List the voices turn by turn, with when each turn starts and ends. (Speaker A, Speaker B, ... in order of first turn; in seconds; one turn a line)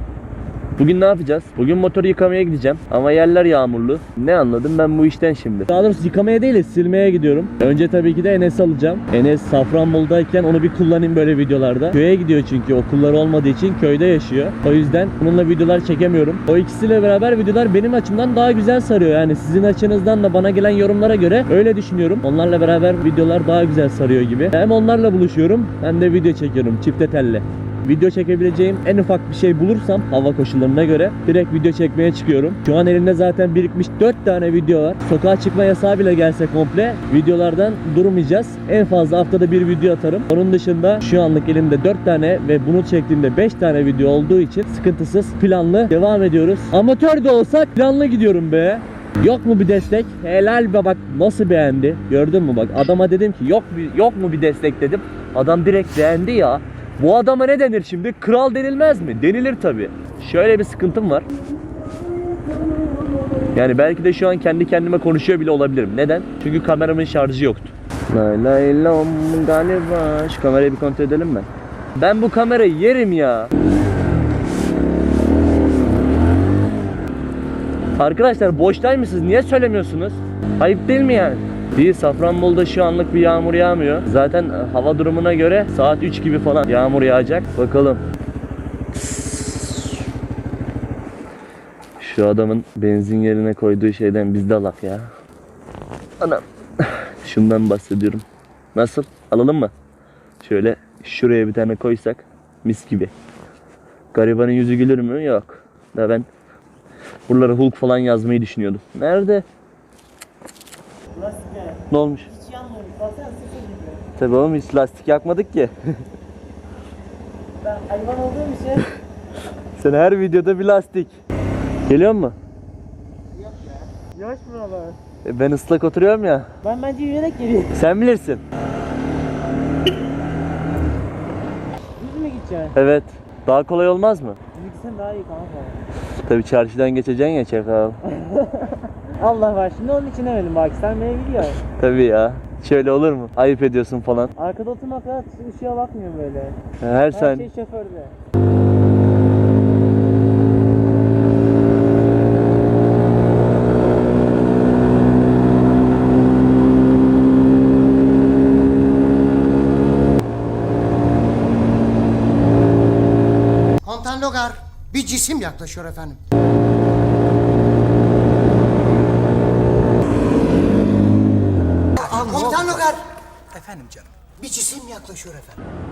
Speaker A: 0.8-61.3
Speaker A: 63.5-73.5
Speaker A: 78.0-88.0
Speaker A: 88.9-89.9
Speaker A: 92.0-95.1
Speaker A: 96.2-98.2
Speaker A: 98.7-99.7
Speaker A: 100.4-103.1
Speaker A: 104.1-106.3
Speaker A: 107.3-109.5
Speaker B: 111.1-114.0
Speaker A: 111.9-112.3
Speaker A: 114.2-116.0
Speaker B: 117.6-118.9
Speaker A: 119.8-121.2
Speaker A: 121.9-122.3
Speaker B: 123.4-125.0
Speaker A: 125.2-126.5
Speaker B: 126.6-127.7
Speaker A: 127.7-128.4
Speaker B: 132.0-132.7
Speaker A: 132.7-134.4
Speaker B: 134.5-135.8
Speaker A: 136.2-138.0
Speaker B: 138.0-141.6
Speaker A: 141.7-144.3
Speaker B: 144.4-146.6
Speaker A: 146.8-147.5
Speaker B: 147.1-148.1
Speaker C: 163.8-166.2
Speaker C: 171.9-175.5